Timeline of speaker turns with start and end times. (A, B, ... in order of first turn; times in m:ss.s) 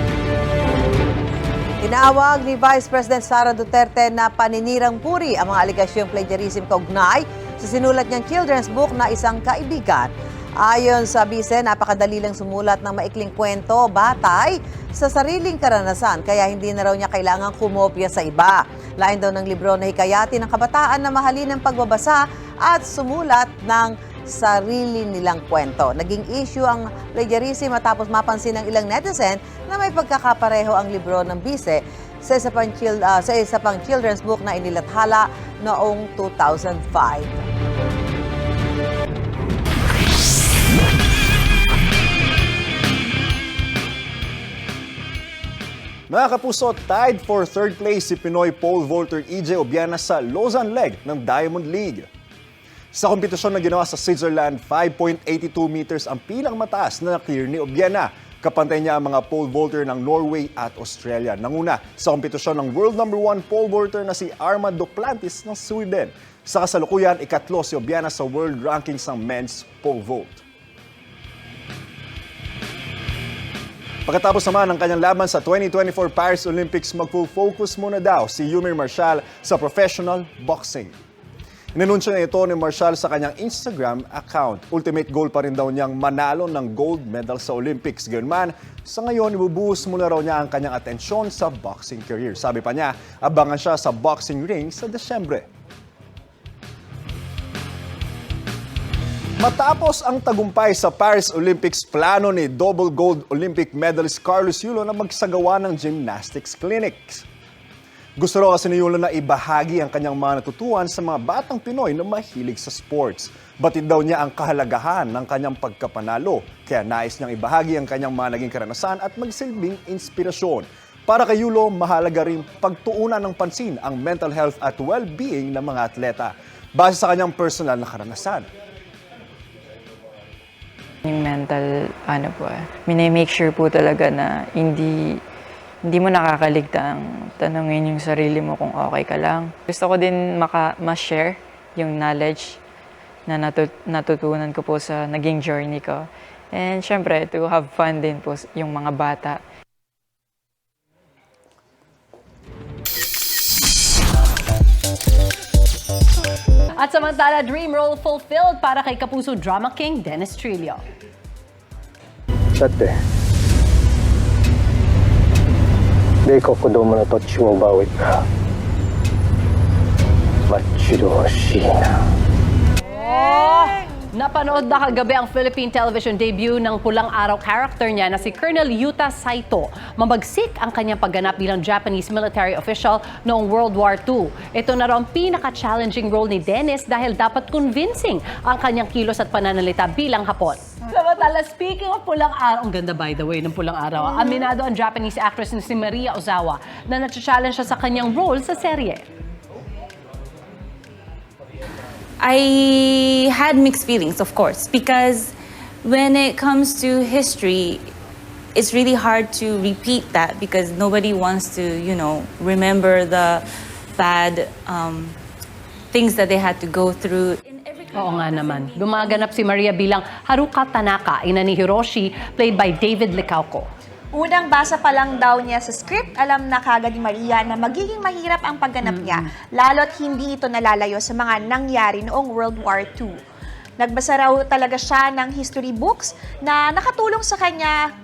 0:01.8-0:37.4 A
0:46.1-0:52.1 B
0:52.9-1:10.4 B
1:14.0-1:20.9 B
1:21.7-1:35.5 B
1:39.4-1:47.2 B
1:48.2-2:08.5 B
2:11.0-2:15.2 C
2:15.8-2:22.6 C
2:23.3-2:29.4 C
2:36.8-2:40.8 D
2:42.6-2:42.9 E
2:46.2-2:48.0 E
2:50.5-2:51.9 E
2:53.0-3:19.0 D
3:22.2-3:27.9 F
3:28.5-3:33.4 F
3:34.0-3:35.2 F
3:35.9-3:37.4 F
3:37.9-3:43.7 D
3:44.1-3:53.2 G
3:48.8-3:49.2 D
3:53.8-3:57.8 G